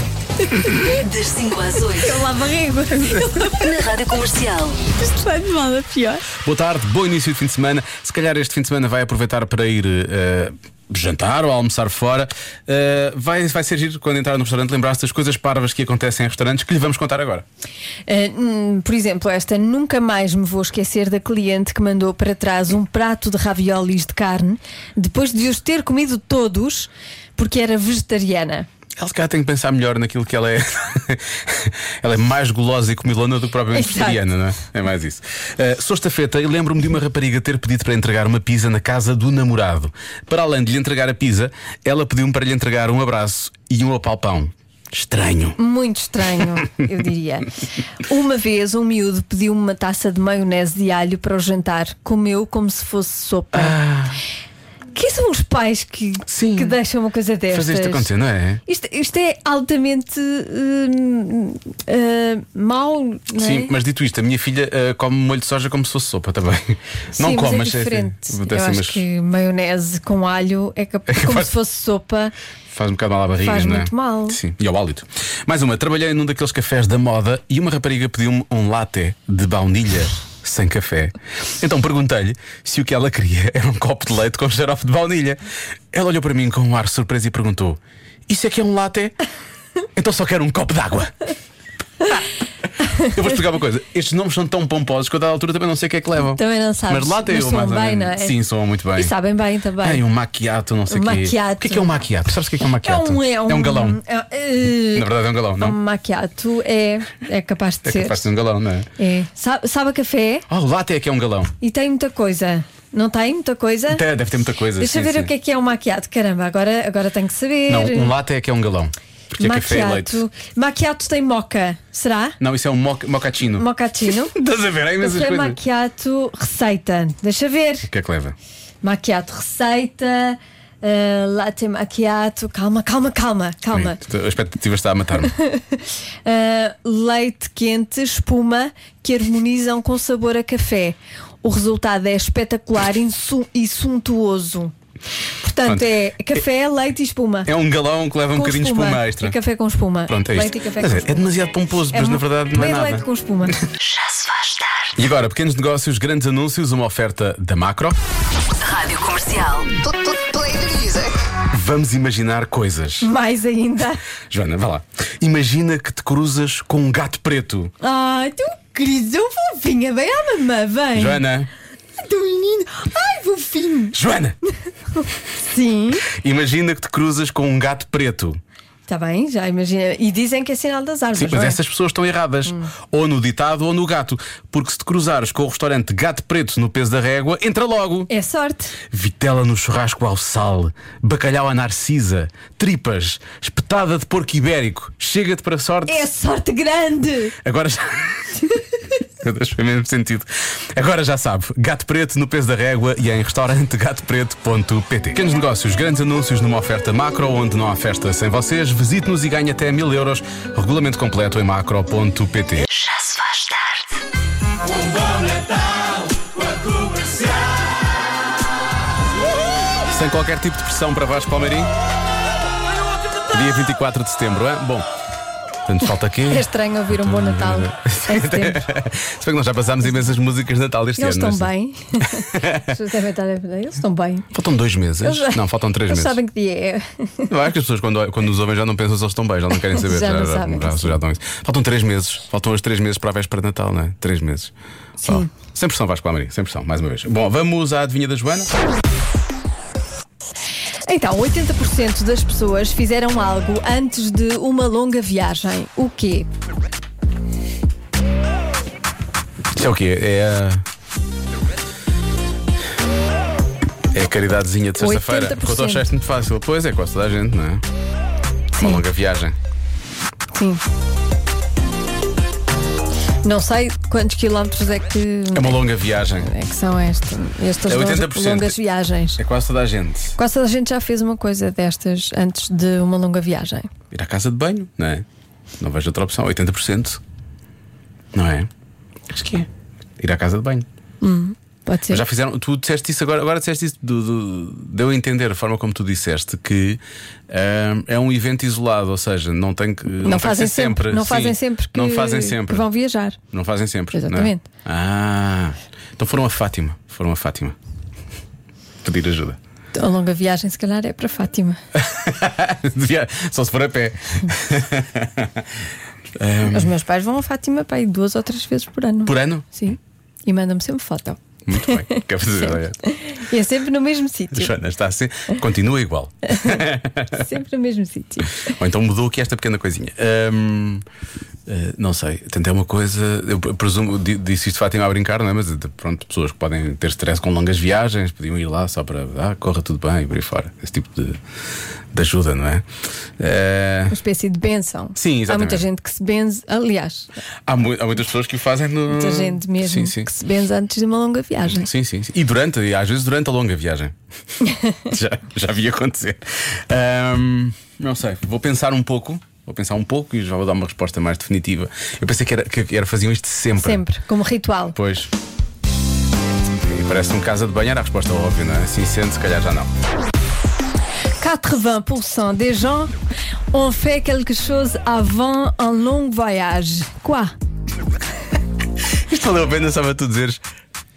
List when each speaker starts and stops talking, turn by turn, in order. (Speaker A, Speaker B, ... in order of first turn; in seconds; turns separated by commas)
Speaker A: 0.4-0.9, Speaker B: 0.8-2.1, Speaker A: 1.8-3.9, Speaker B: 3.5-4.8, Speaker A: 4.9-6.3, Speaker C: 6.4-17.4, Speaker A: 18.1-28.7, Speaker C: 29.0-45.6, Speaker A: 33.7-34.2, Speaker A: 45.6-47.5, Speaker A: 48.0-53.8, Speaker C: 53.5-54.2, Speaker A: 54.9-58.1, Speaker C: 56.3-56.8, Speaker C: 57.5-58.6, Speaker A: 58.6-63.7, Speaker C: 63.3-69.0, Speaker A: 67.2-72.3, Speaker C: 71.1-71.5, Speaker C: 72.7-85.4, Speaker A: 73.4-74.4, Speaker C: 85.9-89.2, Speaker C: 90.0-91.1, Speaker C: 93.0-99.1, Speaker A: 96.3-98.3, Speaker A: 99.0-100.0, Speaker C: 99.8-104.0, Speaker A: 100.9-101.9, Speaker A: 102.8-108.3, Speaker C: 104.8-105.8, Speaker C: 107.8-108.9, Speaker A: 109.0-110.5, Speaker C: 110.5-111.5, Speaker A: 111.6-114.0, Speaker C: 113.9-115.3, Speaker A: 114.8-118.1, Speaker C: 117.7-120.2, Speaker A: 119.4-122.4, Speaker C: 122.4-125.6, Speaker A: 123.5-124.3, Speaker A: 125.0-127.9, Speaker C: 127.9-128.3, Speaker A: 128.8-134.0, Speaker C: 133.7-135.3, Speaker A: 135.2-144.7, Speaker A: 145.4-147.5, Speaker C: 145.7-145.9, Speaker C: 147.4-149.3, Speaker A: 148.3-151.3, Speaker C: 150.1-153.6, Speaker A: 151.9-153.6, Speaker B: 153.8-154.9, Speaker C: 154.9-158.0, Speaker B: 158.6-159.7, Speaker A: 160.2-161.0, Speaker C: 161.5-163.1, Speaker A: 163.0-164.0, Speaker C: 164.3-167.7, Speaker A: 167.8-171.2, Speaker C: 170.9-171.5, Speaker A: 172.0-173.9, Speaker C: 173.9-174.3, Speaker A: 174.9-176.1, Speaker C: 176.1-178.4, Speaker A: 178.8-181.6, Speaker C: 181.1-188.1, Speaker A: 188.1-188.8, Speaker C: 188.9-196.1, Speaker A: 195.8-197.3, Speaker C: 197.4-198.3, Speaker C: 199.2-212.7, Speaker B: 212.8-213.8, Speaker C: 219.9-221.7, Speaker C: 223.3-224.8, Speaker C: 225.7-231.5, Speaker A: 226.3-228.6, Speaker A: 231.0-234.3, Speaker C: 232.3-232.7, Speaker C: 234.3-236.2, Speaker A: 235.0-237.3, Speaker C: 237.3-248.5, Speaker A: 239.7-241.0, Speaker A: 245.0-245.3, Speaker A: 250.9-256.3, Speaker C: 259.5-260.6, Speaker C: 263.9-267.6, Speaker A: 264.8-265.9, Speaker A: 268.5-268.8, Speaker C: 268.6-269.4, Speaker A: 270.3-270.6, Speaker A: 273.2-275.6, Speaker C: 275.3-276.3, Speaker A: 276.2-279.2, Speaker C: 277.6-278.6, Speaker C: 279.2-280.1, Speaker A: 280.2-283.7, Speaker C: 283.9-285.0, Speaker C: 285.6-287.0, Speaker C: 288.1-288.5, Speaker C: 289.1-289.5, Speaker C: 290.0-290.6, Speaker A: 291.0-292.0, Speaker C: 291.9-302.6, Speaker A: 300.0-303.2, Speaker C: 303.3-307.5, Speaker A: 303.9-304.4, Speaker C: 308.8-309.4, Speaker A: 309.7-311.6, Speaker C: 311.8-315.4, Speaker C: 316.1-316.7, Speaker A: 316.5-324.5, Speaker C: 319.0-319.5, Speaker C: 321.4-322.8, Speaker C: 324.3-327.2, Speaker A: 326.3-326.6, Speaker A: 327.1-328.4, Speaker C: 328.4-330.8, Speaker C: 331.5-341.2, Speaker C: 341.9-342.6, Speaker C: 343.2-343.9, Speaker A: 343.9-347.1, Speaker C: 344.9-345.7, Speaker C: 347.5-350.1, Speaker A: 348.9-351.7, Speaker C: 351.4-353.9, Speaker C: 354.9-363.8, Speaker A: 363.6-364.8, Speaker C: 364.7-365.1, Speaker C: 366.6-369.7, Speaker A: 371.2-372.9, Speaker A: 373.5-377.3, Speaker C: 379.1-380.4